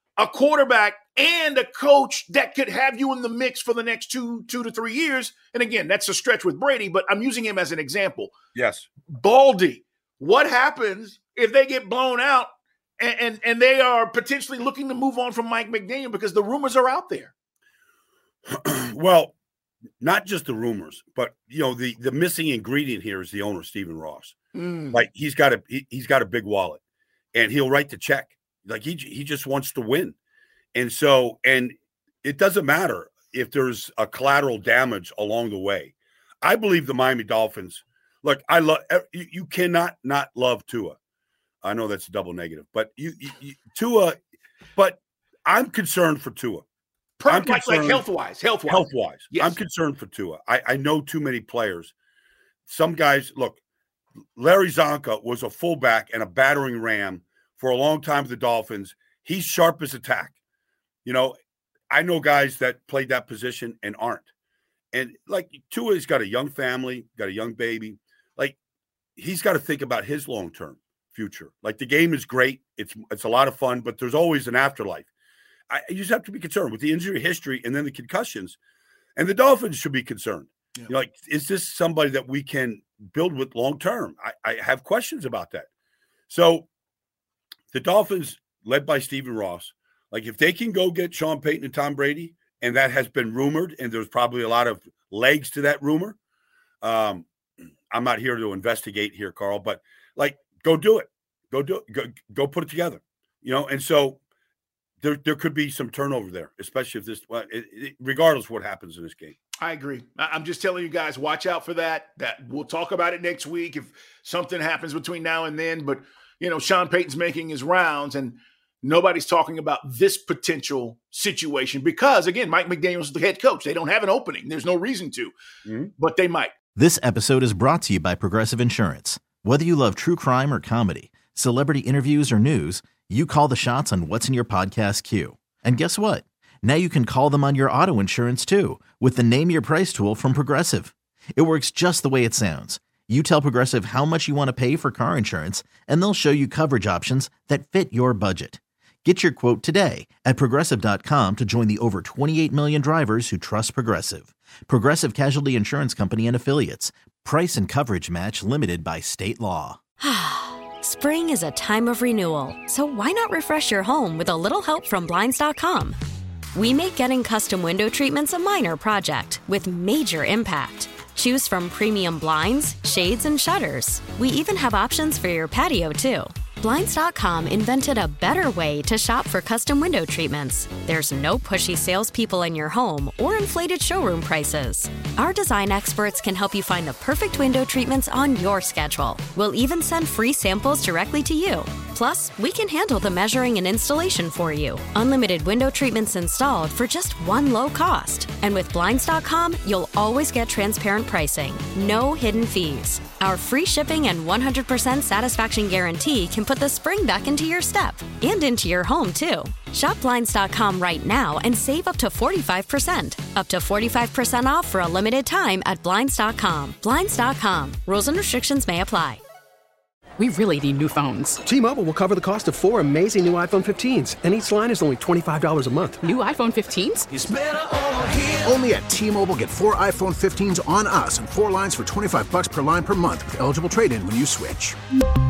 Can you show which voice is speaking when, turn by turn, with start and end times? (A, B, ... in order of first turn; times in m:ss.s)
0:00.2-0:08.3 A
0:08.6-0:08.9 B
0:09.1-0:17.3 A
0:18.5-0:19.4 B
0:20.0-0:24.4 B
0:24.5-0:25.0 A
0:24.9-0:26.8 B
0:27.3-0:30.2 B
0:30.8-0:41.0 B
0:41.6-0:44.2 B
0:44.8-0:46.6 B
0:47.2-0:49.6 A
0:47.3-0:48.0 B
0:48.7-0:51.9 B
0:52.7-0:53.6 B
0:54.4-1:00.4 B
1:01.0-1:01.4 B
1:01.9-1:04.3 B
1:04.9-1:08.6 B
1:09.2-1:15.1 B
1:15.7-1:18.6 B
1:19.2-1:25.7 B
1:26.3-1:26.7 B
1:27.7-1:36.2 B
1:36.8-1:37.3 B
1:37.9-1:44.2 B
1:45.0-1:49.4 B
1:49.6-2:05.3 A
2:05.7-2:05.9 B
2:06.0-2:06.5 A
2:06.8-2:39.8 C
2:40.0-2:46.0 D
2:46.6-3:39.2 D
3:40.2-3:41.4 E
3:41.4-3:46.0 F
3:46.0-3:47.1 E
3:47.1-3:47.7 G
3:48.3-3:54.8 G